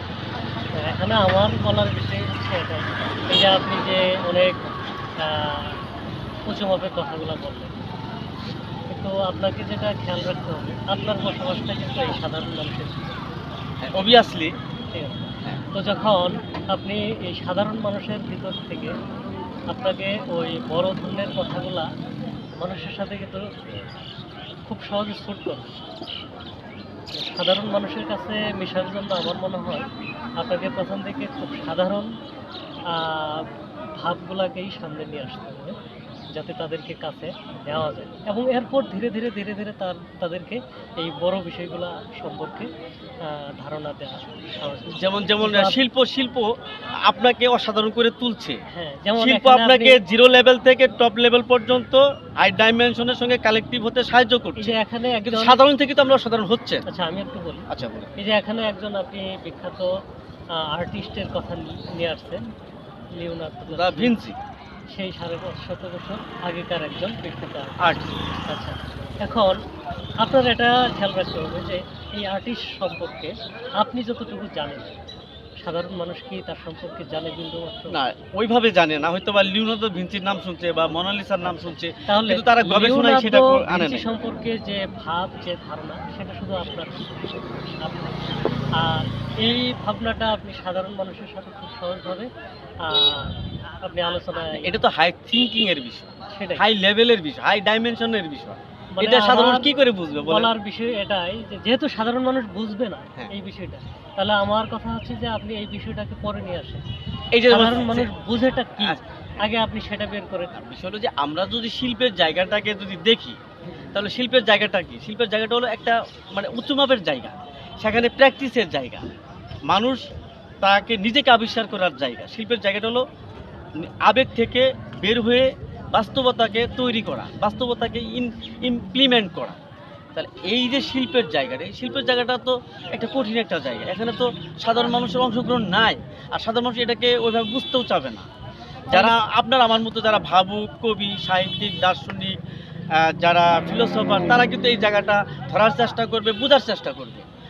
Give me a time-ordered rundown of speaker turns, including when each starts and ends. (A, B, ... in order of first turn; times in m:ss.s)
0:00.8-0:05.8 A
0:06.5-0:07.8 A
0:08.9-0:13.2 A
0:13.8-0:14.6 B
0:14.9-0:18.9 A
0:19.7-0:21.9 A
0:22.6-0:23.5 A
0:24.6-0:25.7 A
0:27.2-0:32.1 A
0:32.9-0:35.8 A
0:36.3-0:42.7 A
0:43.2-0:45.8 A
0:45.0-0:46.5 B
0:47.1-0:48.6 B
0:48.7-0:50.0 A
0:49.2-0:56.9 B
0:54.6-0:55.6 A
0:56.9-0:59.9 A
0:57.7-0:58.1 B
1:00.6-1:02.4 A
1:03.1-1:04.2 A
1:03.7-1:04.4 B
1:04.9-1:09.6 A
1:07.8-1:08.2 B
1:10.2-1:15.0 A
1:15.6-1:18.0 A
1:17.9-1:24.1 B
1:21.5-1:28.2 A
1:28.8-1:32.3 A
1:32.8-1:34.8 A
1:34.5-1:40.5 B
1:36.3-1:36.6 A
1:39.0-1:39.7 A
1:40.3-1:46.8 A
1:47.3-1:48.1 B
1:47.5-1:50.5 A
1:48.8-1:49.4 B
1:50.5-1:53.4 B
1:53.9-1:59.1 B
1:59.7-2:00.1 B
2:00.6-2:03.0 B
2:03.8-2:09.6 B
2:10.2-2:18.3 B
2:18.9-2:19.2 A
2:18.9-2:22.4 B
2:23.0-2:27.3 B